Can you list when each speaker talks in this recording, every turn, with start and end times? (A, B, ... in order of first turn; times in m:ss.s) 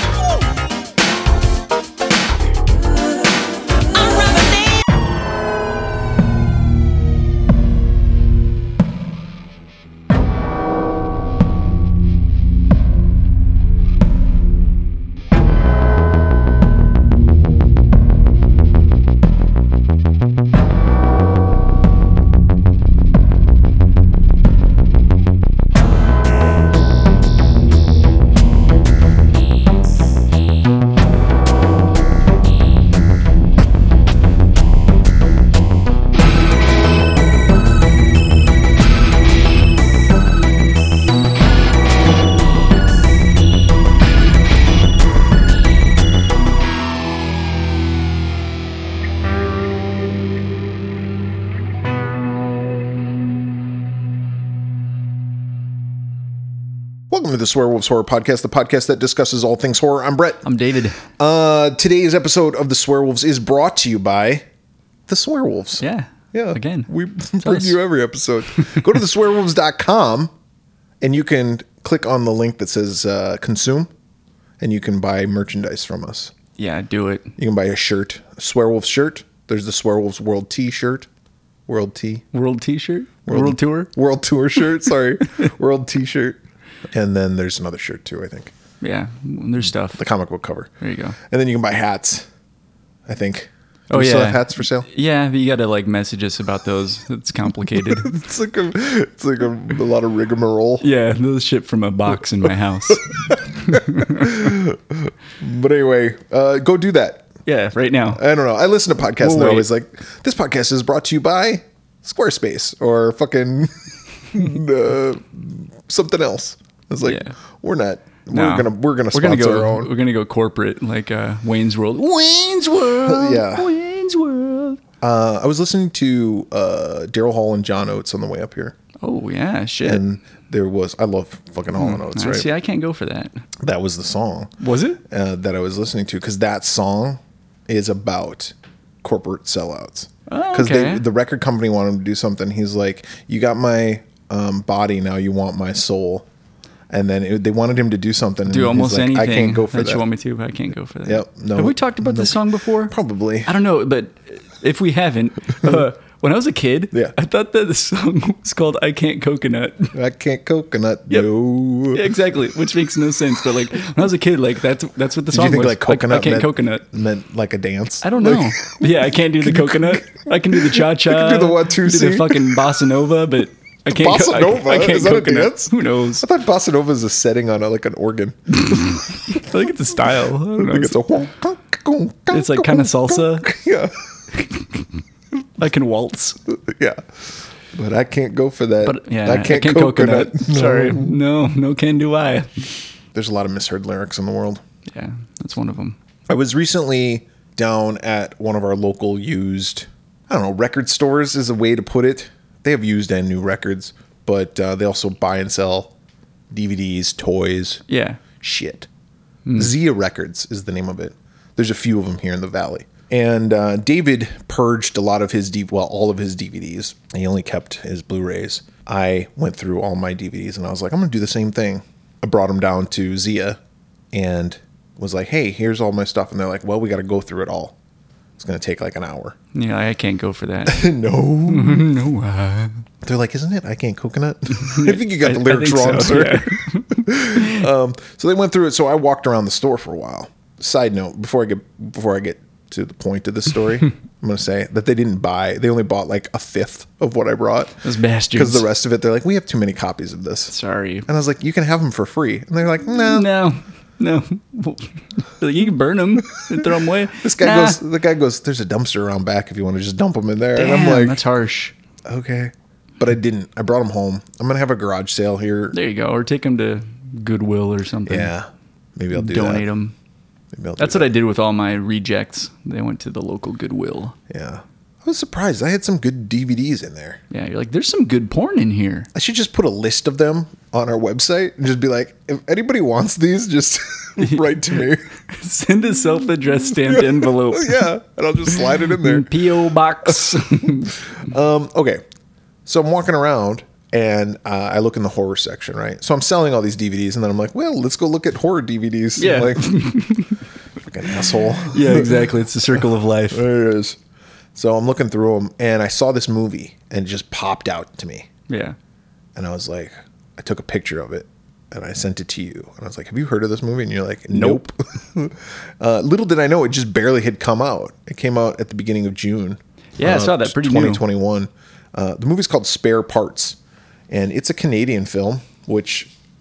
0:02.7-0:04.9 A
0:57.1-1:00.4 B
1:00.4-1:01.0 C
1:01.2-1:04.4 B
1:05.1-1:10.3 B
1:05.8-1:07.8 C
1:08.6-1:08.8 C
1:11.0-1:13.9 B
1:14.6-1:16.3 B
1:16.6-1:17.3 C
1:17.4-1:21.1 B
1:21.7-1:22.2 B
1:22.3-1:23.9 C
1:23.2-1:26.4 B
1:26.9-1:28.5 B
1:28.8-1:30.0 C
1:29.9-1:30.7 B
1:30.8-1:31.2 C
1:31.3-1:32.3 B
1:33.0-1:34.9 B
1:33.9-1:38.2 C
1:37.7-1:40.8 B
1:40.8-1:44.5 C
1:43.1-1:47.3 B
1:47.4-1:48.2 C
1:48.1-1:53.7 B
1:49.2-1:49.7 C
1:54.3-1:59.9 B
1:57.0-1:57.4 C
1:58.3-2:04.8 C
2:02.9-2:03.7 B
2:05.0-2:08.8 B
2:09.0-2:10.0 C
2:09.8-2:12.5 B
2:11.8-2:13.4 C
2:13.6-2:14.5 B
2:14.6-2:15.0 C
2:15.0-2:26.2 B
2:20.3-2:21.0 C
2:26.9-2:30.0 B
2:28.4-2:32.9 C
2:31.0-2:33.5 B
2:33.4-2:39.9 C
2:39.9-2:42.1 B
2:41.9-2:46.8 C
2:45.3-2:52.6 B
2:48.0-2:56.3 C
2:53.9-3:04.0 B
2:58.5-3:01.0 C
3:02.3-3:03.5 C
3:04.3-3:04.8 C
3:05.6-3:06.4 C
3:06.5-3:07.1 B
3:07.7-3:11.2 B
3:08.8-3:12.7 C
3:13.1-3:14.6 B
3:14.9-3:16.0 C
3:16.3-3:25.9 B
3:26.5-3:27.8 B
3:27.9-3:28.2 C
3:28.4-3:28.9 B
3:29.4-3:29.7 C
3:29.6-3:43.6 B
3:44.1-3:47.7 B
3:48.4-3:49.4 B
3:49.5-3:50.9 C
3:50.7-3:51.9 B
3:51.5-3:52.8 C
3:53.0-4:07.8 B
3:54.5-3:57.6 C
4:07.8-4:08.6 C
4:08.3-4:10.5 B
4:10.5-4:11.1 C
4:11.1-4:13.3 B
4:13.0-4:17.8 C
4:17.2-4:21.2 B
4:20.6-4:21.7 C
4:22.1-4:25.8 B
4:25.7-4:28.3 C
4:28.0-4:29.7 B
4:29.1-4:29.9 C
4:30.5-4:31.1 B
4:30.8-4:34.2 C
4:34.3-4:37.2 B
4:37.3-4:39.1 C
4:39.1-4:45.0 B
4:45.2-4:47.9 C
4:46.7-4:49.5 B
4:48.6-4:51.0 C
4:50.0-4:52.0 B
4:52.6-4:59.8 B
4:59.2-5:00.3 C
5:00.8-5:04.0 B
5:01.3-5:03.4 C
5:04.5-5:08.3 B
5:08.5-5:08.8 C
5:09.3-5:23.6 B
5:14.3-5:14.7 C
5:20.0-5:21.0 C
5:24.1-5:26.1 B